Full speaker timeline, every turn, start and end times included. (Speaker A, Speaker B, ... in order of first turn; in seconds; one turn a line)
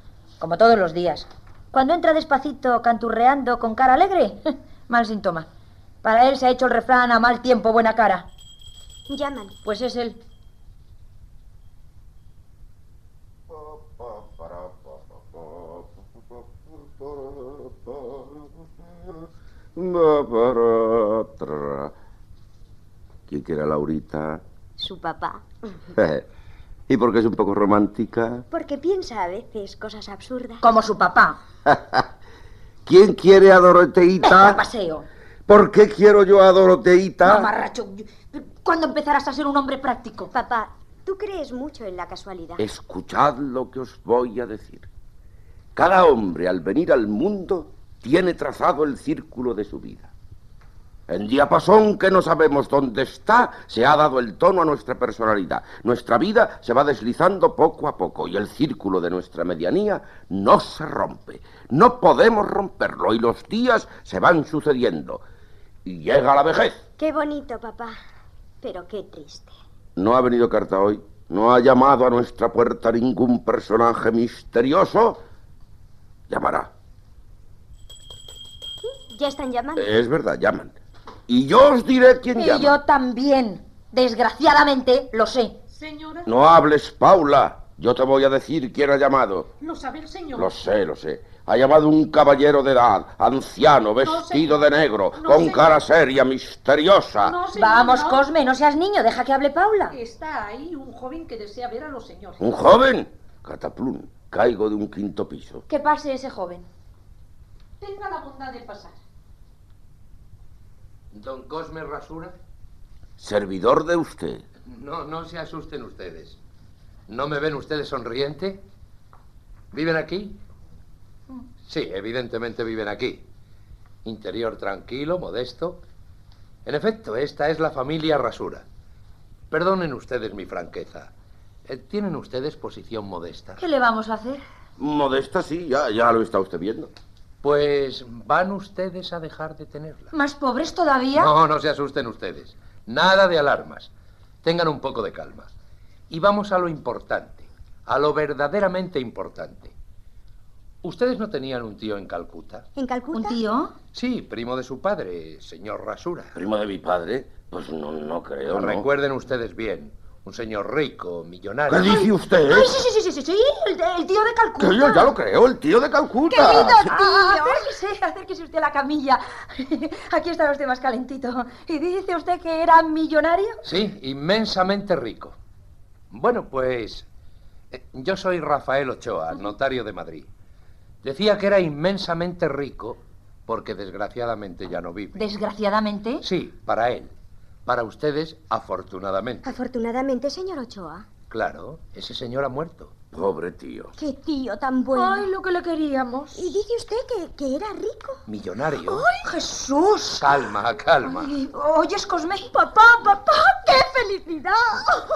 Speaker A: 0.4-5.5
Speaker A: 6.0-8.3
Speaker B: 9.1-9.6
Speaker A: 9.6-10.2
Speaker C: 13.5-19.2
Speaker C: 19.7-21.9
Speaker C: 23.3-24.4
Speaker B: 24.8-25.5
Speaker C: 25.9-26.2
Speaker C: 26.9-28.4
Speaker B: 28.5-30.6
Speaker A: 30.6-31.4
Speaker C: 31.6-32.0
Speaker C: 32.8-34.6
Speaker A: 34.2-35.0
Speaker C: 35.5-37.5
Speaker A: 37.2-40.3
Speaker B: 40.3-42.6
Speaker C: 42.6-44.9
Speaker C: 45.8-50.1
Speaker C: 51.1-65.2
Speaker C: 65.8-66.8
Speaker B: 67.0-68.0
Speaker B: 68.6-69.5
Speaker C: 70.0-75.2
Speaker C: 76.3-76.7
Speaker B: 78.9-79.9
Speaker C: 79.8-80.7
Speaker C: 81.3-82.8
Speaker A: 82.3-85.6
Speaker D: 85.7-86.3
Speaker C: 86.3-89.5
Speaker D: 89.6-90.5
Speaker C: 90.3-97.4
Speaker D: 94.0-95.8
Speaker D: 97.2-98.2
Speaker A: 97.5-100.0
Speaker D: 99.9-102.5
Speaker C: 102.4-105.6
Speaker A: 105.7-106.7
Speaker D: 107.8-109.0
Speaker E: 111.1-112.3
Speaker C: 113.2-114.4
Speaker E: 114.7-116.4
Speaker E: 117.1-118.6
Speaker E: 119.7-120.4
Speaker E: 121.6-123.2
Speaker E: 124.0-125.8
Speaker E: 126.6-128.6
Speaker E: 129.5-131.1
Speaker E: 131.7-133.6
Speaker A: 133.6-134.4
Speaker C: 134.8-136.9
Speaker E: 137.4-140.1
Speaker A: 140.1-141.3
Speaker E: 141.2-143.9
Speaker E: 144.4-145.5
Speaker E: 146.1-149.7
Speaker E: 150.8-152.7
Speaker B: 152.8-153.4
Speaker A: 153.1-153.7
Speaker E: 153.9-156.3
Speaker C: 156.3-158.9
Speaker E: 158.4-161.9
Speaker C: 161.7-162.7
Speaker A: 161.9-165.1
Speaker C: 164.6-166.9
Speaker A: 166.3-173.6
Speaker B: 166.3-167.6
Speaker E: 173.6-175.3
Speaker E: 176.1-177.1
Speaker E: 177.7-180.3
Speaker E: 181.0-185.2
Speaker A: 185.1-186.2
Speaker E: 186.2-187.1
Speaker E: 187.6-189.5
Speaker B: 189.4-191.1
Speaker E: 191.3-192.9
Speaker C: 193.1-193.9
Speaker B: 194.0-195.3
Speaker A: 194.9-196.4
Speaker B: 196.3-198.2
Speaker E: 198.3-199.1
Speaker A: 198.8-200.3
Speaker E: 200.2-201.3
Speaker A: 201.0-202.8
Speaker B: 202.6-204.9